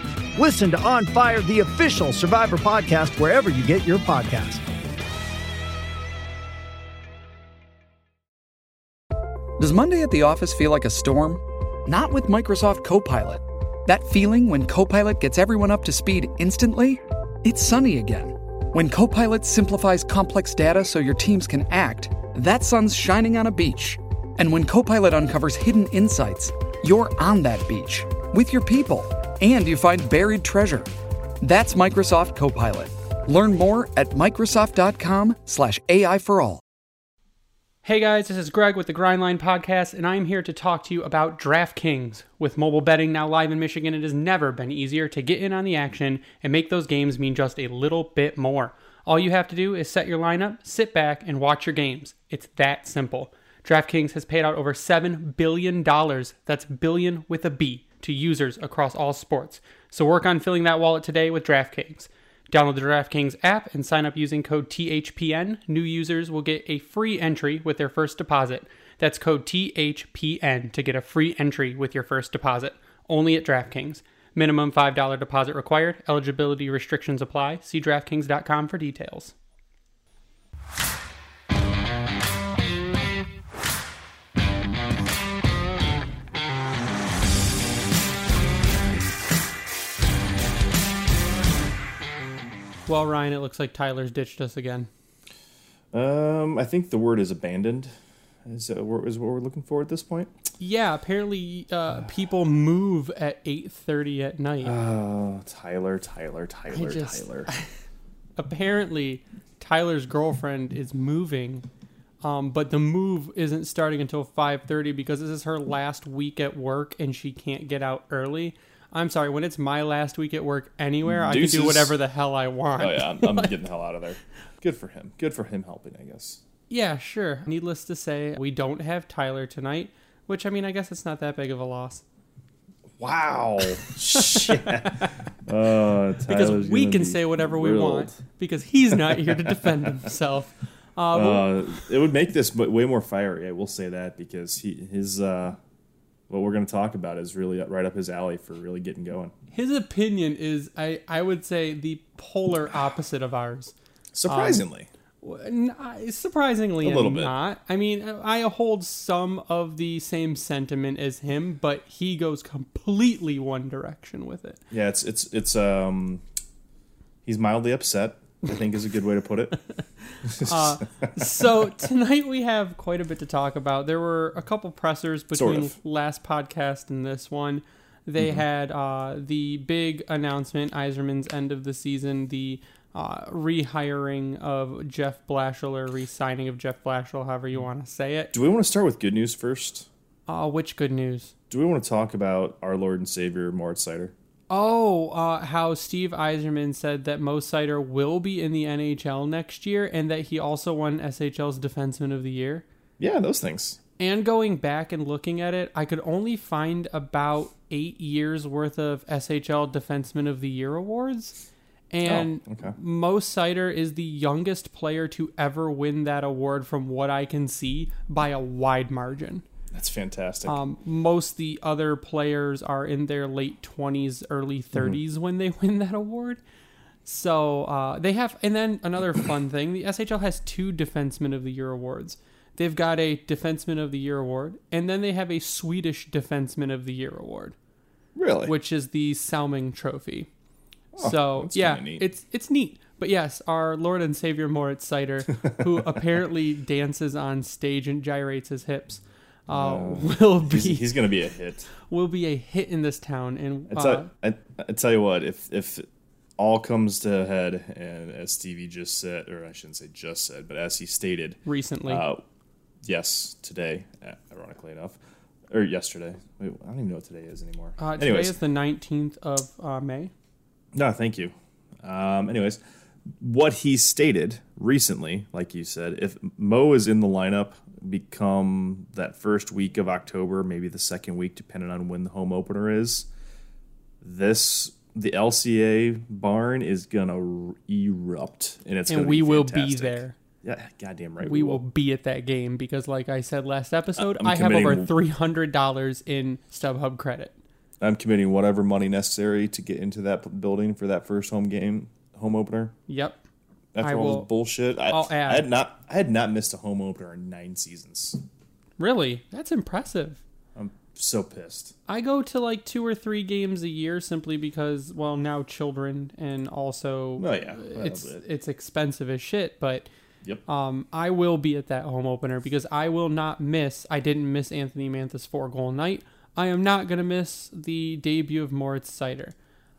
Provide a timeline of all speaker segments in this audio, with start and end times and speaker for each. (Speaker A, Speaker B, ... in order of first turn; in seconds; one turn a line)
Speaker A: 0.4-4.6
Speaker B: 9.6-30.9
Speaker B: 31.4-36.6
Speaker C: 37.9-79.3
Speaker C: 92.9-94.9
Speaker D: 95.9-100.3
Speaker C: 100.6-104.8
Speaker D: 104.6-107.5
Speaker C: 106.7-107.7
Speaker C: 108.4-111.7
Speaker C: 112.2-123.5
Speaker D: 121.1-122.0
Speaker D: 122.8-126.4
Speaker C: 126.7-132.0
Speaker D: 133.0-138.2
Speaker C: 133.7-135.3
Speaker C: 136.3-141.9
Speaker D: 138.9-139.9
Speaker D: 141.1-145.6
Speaker D: 146.3-149.3
Speaker C: 149.5-153.7
Speaker D: 154.1-154.9
Speaker C: 154.3-154.6
Speaker C: 155.2-164.6
Speaker D: 156.8-157.3
Speaker D: 164.7-166.2
Speaker D: 167.2-169.6
Speaker C: 170.0-188.3
Speaker D: 170.2-171.5
Speaker D: 175.3-175.8
Speaker D: 188.3-189.9
Speaker C: 190.3-191.3
Speaker D: 191.5-194.1
Speaker C: 194.5-202.7
Speaker D: 203.0-203.8
Speaker C: 204.0-211.4
Speaker C: 211.9-219.5
Speaker D: 212.1-212.8
Speaker D: 219.7-220.6
Speaker C: 220.4-226.4
Speaker C: 227.1-237.6
Speaker D: 238.2-238.5
Speaker C: 238.4-240.3
Speaker D: 240.9-242.1
Speaker C: 241.0-250.9
Speaker D: 245.4-246.0
Speaker D: 249.5-251.7
Speaker C: 251.8-254.1
Speaker D: 253.7-255.9
Speaker D: 256.4-262.2
Speaker C: 261.5-262.0
Speaker D: 262.8-265.0
Speaker D: 265.5-268.4
Speaker C: 267.8-270.1
Speaker D: 270.7-272.6
Speaker D: 273.2-283.1
Speaker D: 284.0-291.6
Speaker C: 288.9-290.2
Speaker C: 291.2-297.4
Speaker D: 294.0-294.9
Speaker D: 297.8-302.7
Speaker C: 302.9-303.2
Speaker D: 303.7-308.2
Speaker C: 303.8-304.3
Speaker C: 304.9-305.5
Speaker C: 308.8-310.2
Speaker D: 310.6-311.8
Speaker C: 311.9-319.9
Speaker D: 317.2-318.2
Speaker C: 320.5-329.4